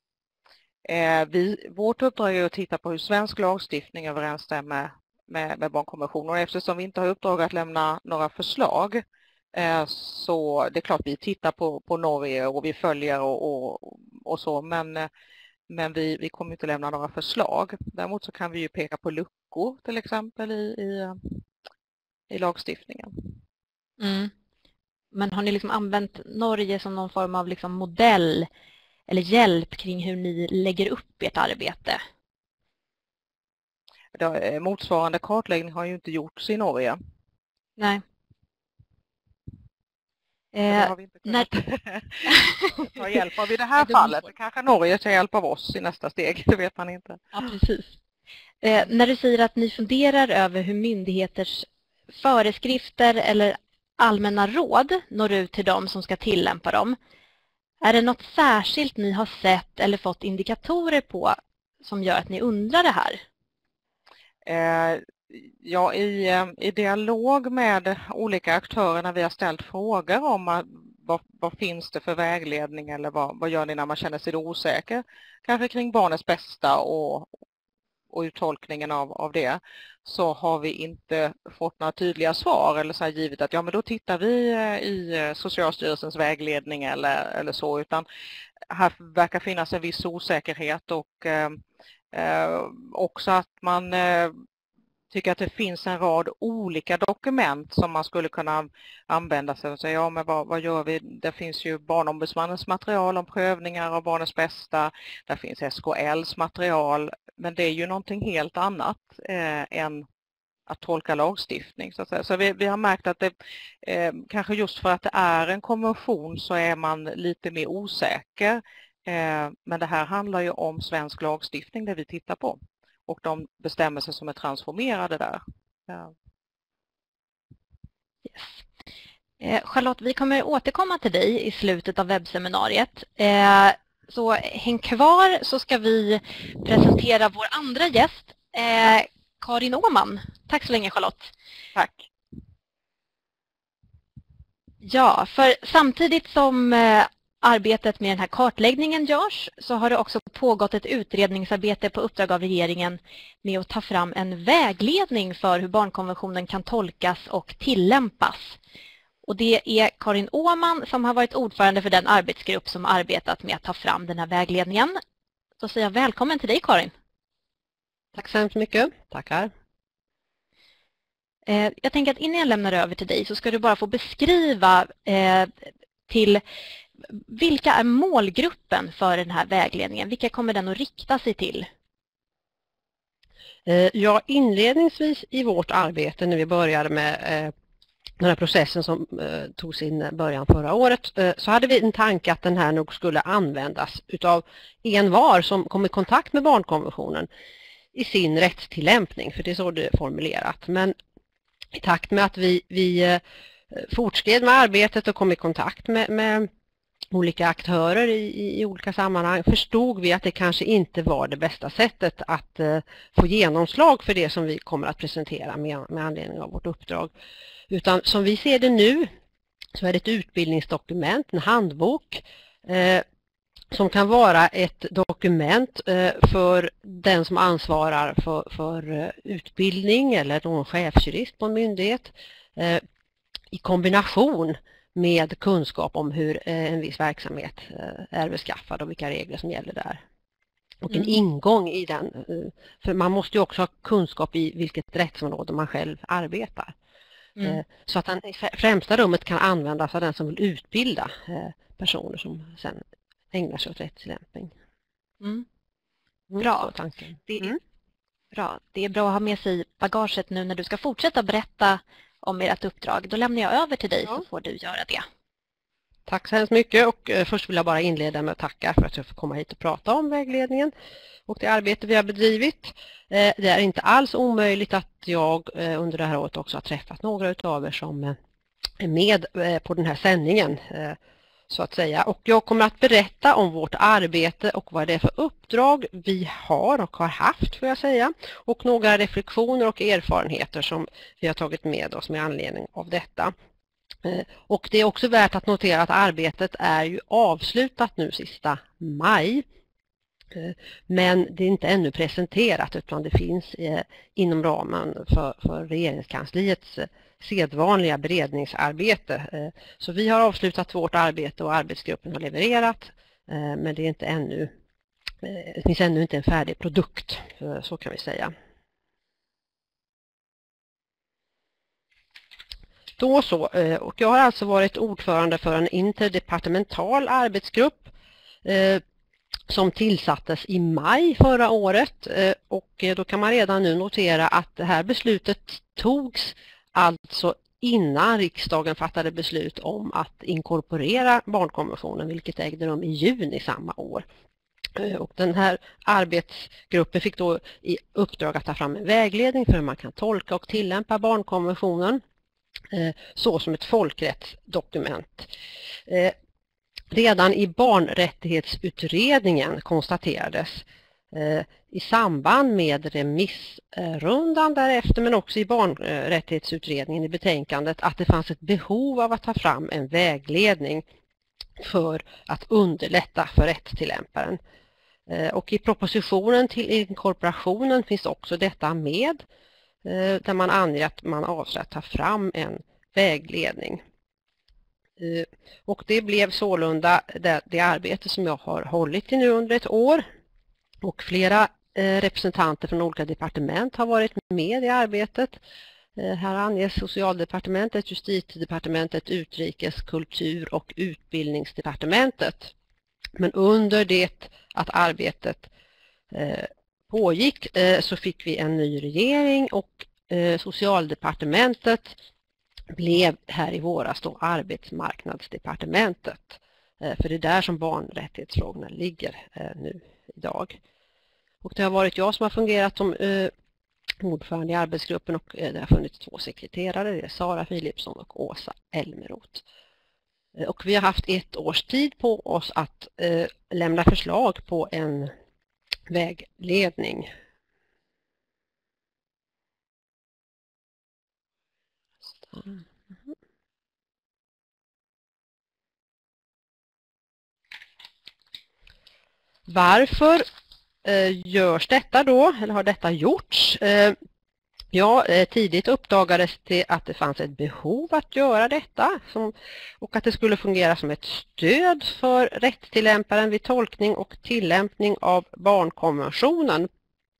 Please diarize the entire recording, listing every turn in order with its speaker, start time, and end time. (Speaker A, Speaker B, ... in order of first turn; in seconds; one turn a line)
Speaker A: 0.8-15.1
Speaker A: 15.7-21.4
Speaker A: 22.3-23.3
Speaker B: 24.0-24.3
Speaker B: 25.1-28.5
Speaker B: 29.1-32.0
Speaker A: 34.1-37.0
Speaker B: 37.8-38.0
Speaker B: 40.5-41.5
Speaker A: 40.7-47.3
Speaker B: 42.2-43.0
Speaker B: 43.8-44.1
Speaker B: 47.3-47.9
Speaker B: 48.6-57.0
Speaker B: 57.8-63.2
Speaker A: 64.4-77.3
Speaker A: 78.1-88.0
Speaker A: 88.7-91.6
Speaker A: 92.1-94.3
Speaker A: 95.1-110.1
Speaker A: 110.7-126.1
Speaker B: 128.3-128.6
Speaker B: 129.4-141.3
Speaker B: 144.8-158.6
Speaker B: 159.2-164.9
Speaker B: 165.6-166.9
Speaker C: 168.1-169.5
Speaker B: 171.4-176.4
Speaker B: 177.0-181.7
Speaker C: 183.7-187.5
Speaker C: 188.2-197.3
Speaker C: 197.9-200.9
Speaker C: 201.7-203.2
Speaker C: 203.7-206.5
Speaker C: 207.1-217.1
Speaker C: 217.7-219.1
Speaker C: 219.7-223.0
Speaker C: 223.7-232.8
Speaker C: 233.5-240.0
Speaker C: 240.8-246.7
Speaker B: 240.9-241.2
Speaker C: 247.4-254.5
Speaker B: 255.2-255.4
Speaker C: 256.3-257.6
Speaker B: 256.4-256.7
Speaker B: 257.2-257.5
Speaker B: 258.3-265.0
Speaker C: 266.1-270.7
Speaker C: 271.3-278.2
Speaker C: 278.8-281.0
Speaker C: 281.5-293.3
Speaker C: 294.0-299.4
Speaker C: 300.3-314.5
Speaker C: 315.2-318.3
Speaker C: 323.0-327.9
Speaker C: 328.4-328.8
Speaker C: 329.5-344.1
Speaker C: 344.7-352.0
Speaker C: 352.7-355.3
Speaker C: 355.9-356.1
Speaker C: 356.9-370.8
Speaker C: 371.6-374.4
Speaker C: 375.1-379.2
Speaker C: 379.8-383.8
Speaker C: 385.0-390.1
Speaker C: 390.8-395.4
Speaker C: 395.9-402.5
Speaker C: 403.1-405.5
Speaker C: 406.1-412.0
Speaker C: 412.7-420.6
Speaker C: 421.4-423.3
Speaker C: 424.0-429.4
Speaker C: 430.3-435.1
Speaker C: 435.9-437.1
Speaker C: 442.1-442.6
Speaker C: 449.5-450.2
Speaker C: 450.8-453.9
Speaker C: 454.7-466.7